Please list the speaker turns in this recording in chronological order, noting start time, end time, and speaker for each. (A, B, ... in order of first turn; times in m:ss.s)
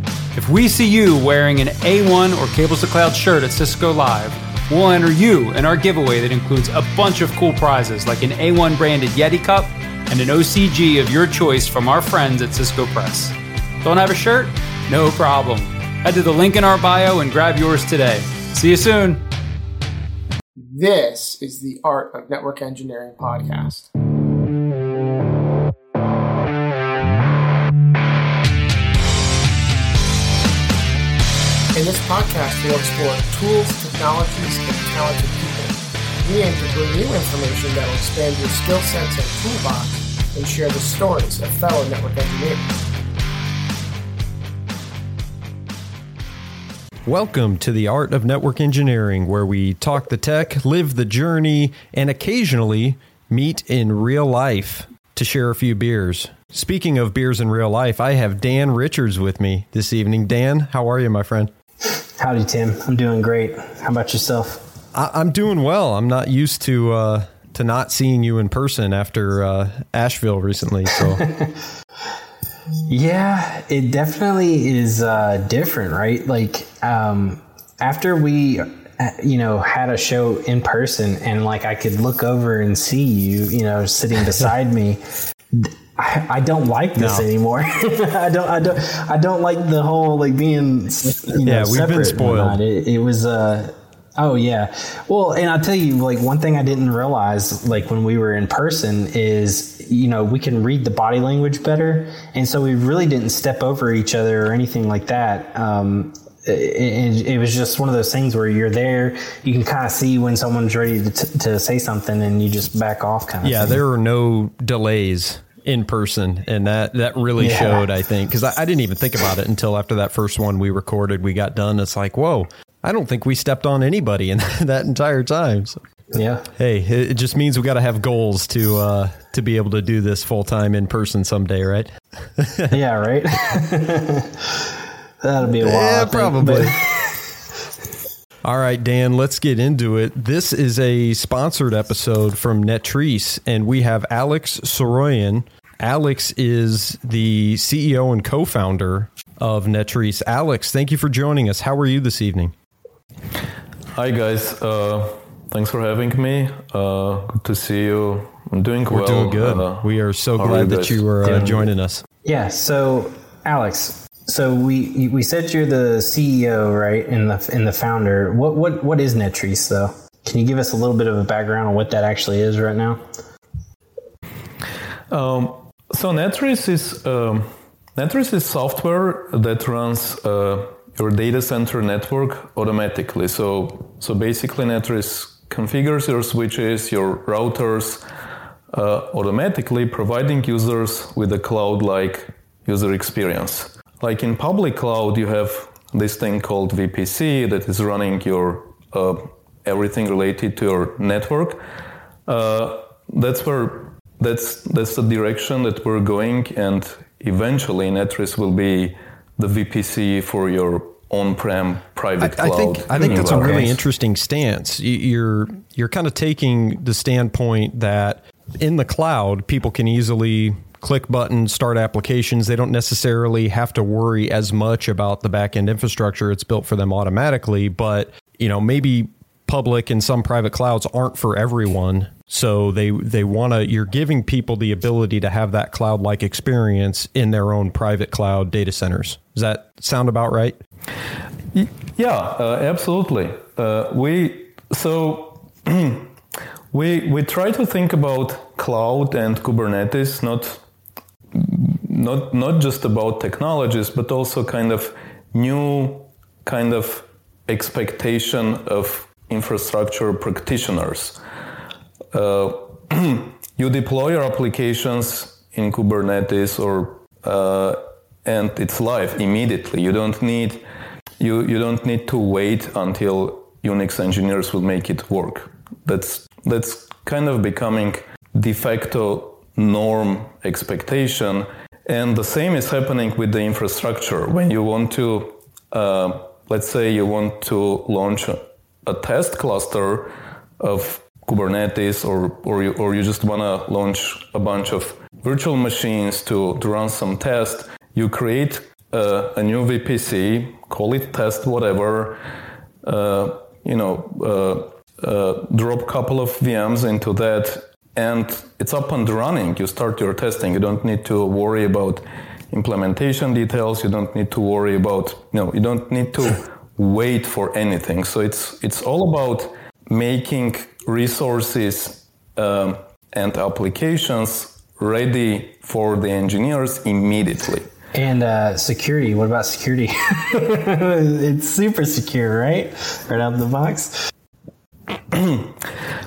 0:00.4-0:19.2 A
0:20.6-0:23.9 B
0:31.7-0:42.7 B
0:47.1-1:01.5 C
1:02.0-1:04.7 D
1:04.9-1:11.2 C
1:11.2-1:11.6 D
1:12.9-1:25.0 D
1:25.5-1:53.8 D
1:27.0-1:27.3 C
1:31.4-1:32.6 C
1:53.4-2:05.8 C
1:57.4-1:57.9 D
2:06.1-2:06.5 D
2:06.6-2:12.8 C
2:12.7-2:14.6 D
2:15.2-2:17.2 D
2:15.5-2:16.8 C
2:18.4-2:32.5 C
2:34.0-2:41.0 E
2:38.9-2:42.0 C
2:41.2-2:41.7 D
2:42.2-2:53.2 D
2:55.1-3:08.0 E
3:08.7-3:21.6 E
3:22.3-3:33.8 E
3:32.2-4:00.6 C
4:01.5-4:06.1 E
4:06.7-4:10.6 E
4:11.3-4:21.2 E
4:22.1-4:30.6 E
4:31.2-5:02.2 E
5:02.8-5:27.7 E
5:27.9-5:34.1 D
5:35.1-5:35.7 E